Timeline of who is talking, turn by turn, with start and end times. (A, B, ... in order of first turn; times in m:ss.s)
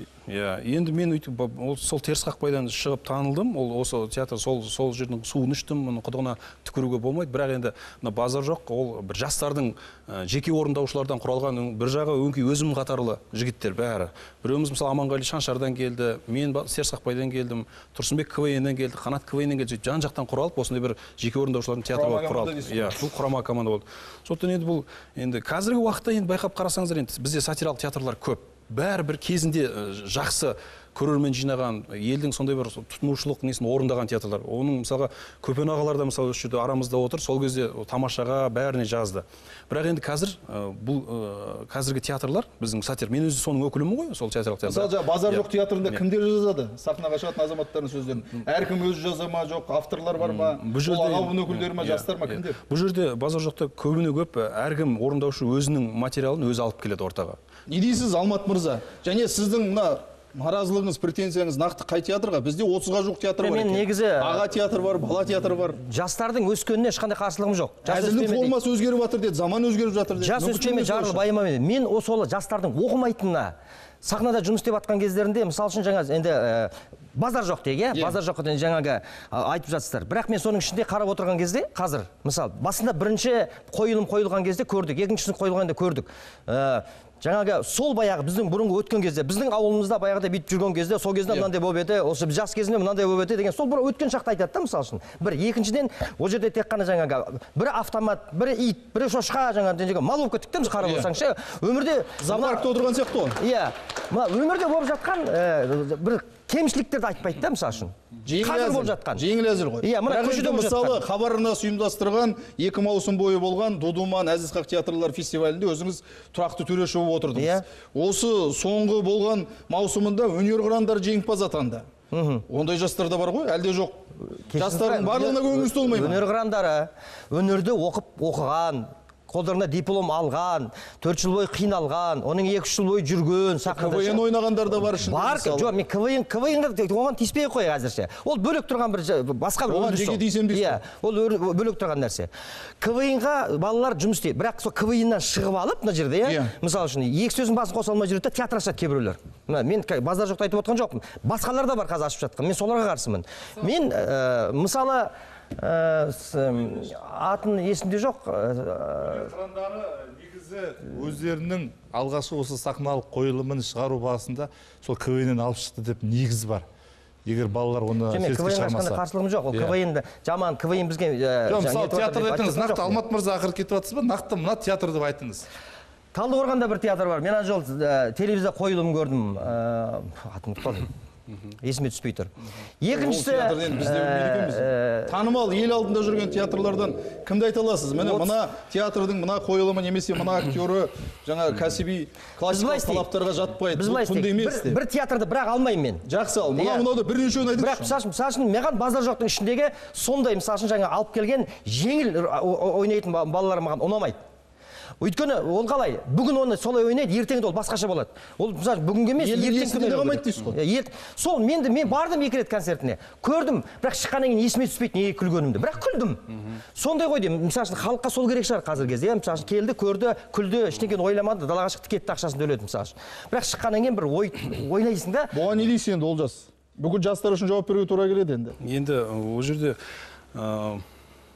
0:00.3-0:46.0 A
0:21.9-0:23.0 B
0:44.6-0:52.6 B
0:50.2-0:57.4 A
0:57.7-1:05.8 B
1:03.4-1:04.4 C
1:05.8-1:08.5 C
1:07.8-1:11.2 B
1:10.2-1:42.7 C
1:40.8-1:41.1 B
1:42.2-1:43.4 B
1:43.4-1:49.2 C
1:48.2-2:01.9 B
1:49.8-1:51.0 C
1:57.3-1:57.6 C
2:02.1-2:02.4 C
2:02.5-2:04.0 B
2:04.5-2:14.2 C
2:04.6-2:06.2 B
2:13.7-2:15.7 B
2:14.8-2:22.3 C
2:19.7-2:20.8 B
2:22.8-2:39.3 C
2:26.2-2:26.5 B
2:39.3-2:46.6 D
2:47.2-2:49.0 D
2:48.1-2:53.0 C
2:51.5-2:55.4 D
2:56.1-3:00.9 C
3:01.6-3:05.1 C
3:02.9-3:14.8 B
3:08.0-3:08.3 C
3:12.5-3:13.1 C
3:13.7-3:16.0 C
3:16.1-3:17.9 B
3:16.6-3:16.9 C
3:17.6-3:24.2 C
3:25.0-3:45.3 C
3:29.2-3:30.6 B
3:45.3-3:48.6 B
3:48.6-3:49.8 A
3:50.3-3:50.8 A